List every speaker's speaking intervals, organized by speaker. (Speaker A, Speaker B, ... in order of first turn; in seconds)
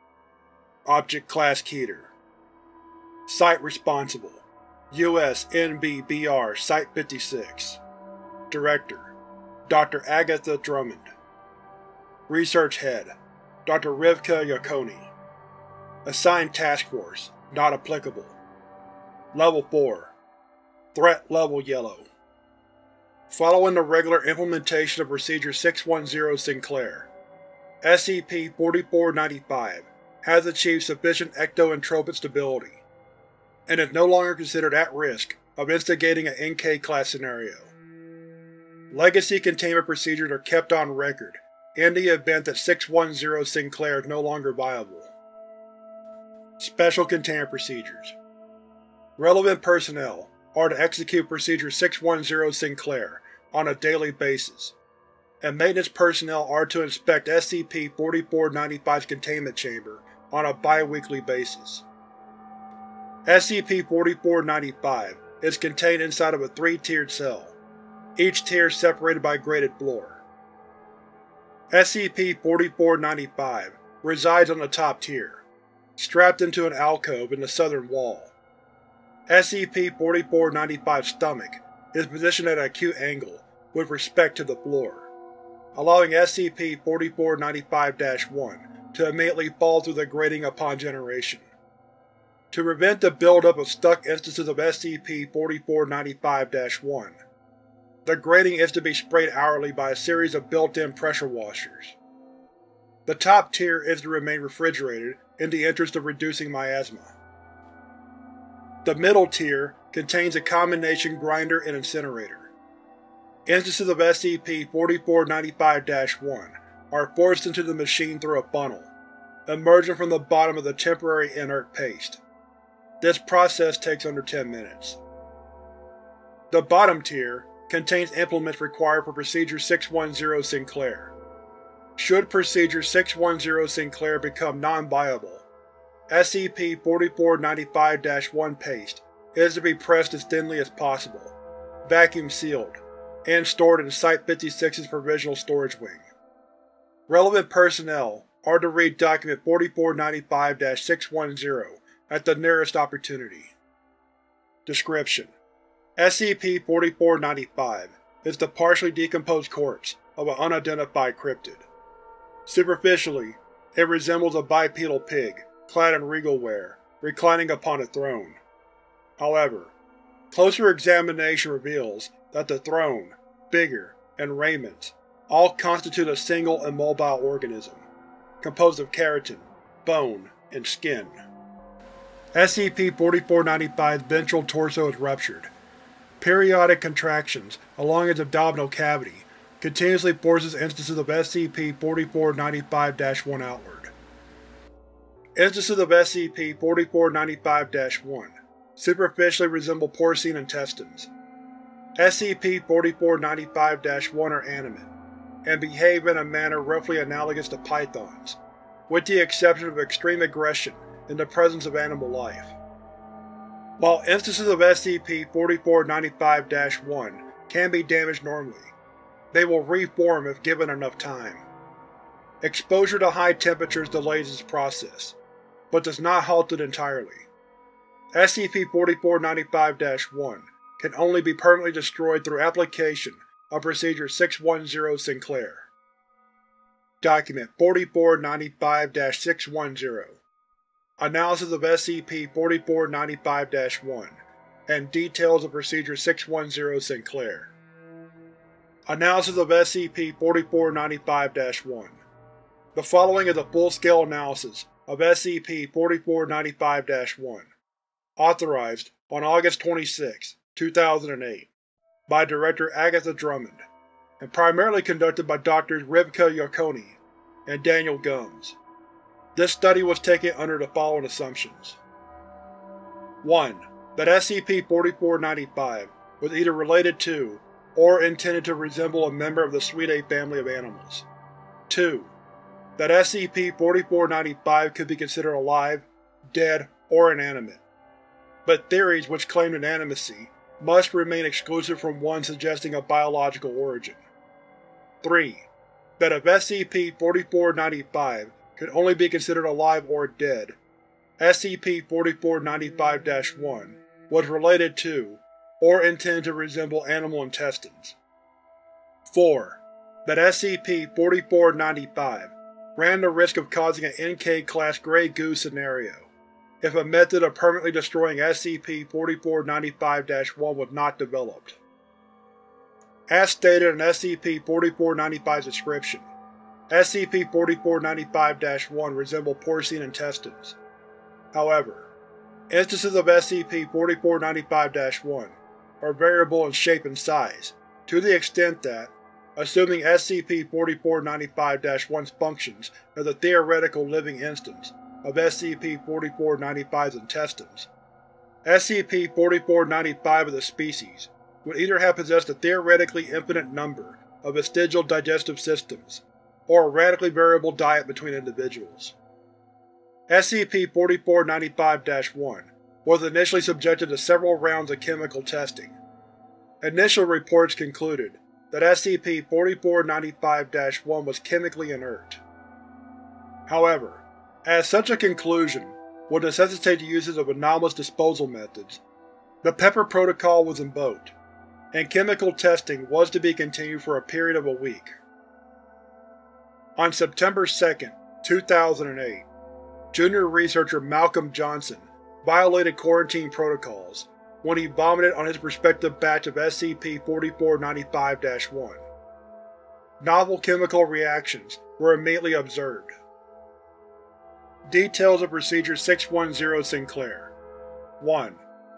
Speaker A: 0.8-2.1, 3.2-7.8, 8.5-9.1, 9.7-11.1, 12.3-13.1, 13.7-15.1, 16.0-18.4, 19.3-20.1, 20.9-22.1, 23.3-27.1, 27.8-32.8, 33.7-37.7, 38.9-45.1, 46.6-48.1, 49.2-54.8, 55.4-61.9, 63.2-67.6, 68.2-70.2, 71.7-75.5, 76.0-78.3, 79.3-85.1, 85.7-91.5, 92.5-97.2, 98.0-102.0, 103.0-107.1, 108.8-112.5, 113.5-118.9, 119.5-122.2, 123.0-125.0, 126.5-131.1, 131.9-135.5, 136.1-146.1, 147.1-153.5, 154.7-155.3, 156.0-161.7, 162.4-168.4, 169.2-169.8, 170.3-177.9, 178.4-181.2, 182.3-185.5, 186.2-193.9, 195.3-201.1, 202.0-204.9, 205.4-212.6, 213.8-218.7, 219.3-221.5, 222.4-225.2, 225.7-227.3, 228.1-235.7, 237.0-240.2, 241.0-247.5, 248.9-252.0, 252.7-257.5, 258.2-261.5, 262.1-263.6, 264.2-268.6, 269.3-271.8, 273.2-281.1, 281.7-282.1, 282.8-287.6, 288.4-294.0, 295.0-300.6, 301.2-308.0, 309.1-321.6, 323.1-326.1, 326.7-330.6, 331.3-331.9, 332.5-347.7, 348.4-358.9, 360.1-365.8, 366.6-372.2, 373.5-378.8, 379.4-381.1, 381.7-384.9, 386.8-389.3, 389.9-398.9, 400.0-402.9, 404.6-407.3, 408.0-408.4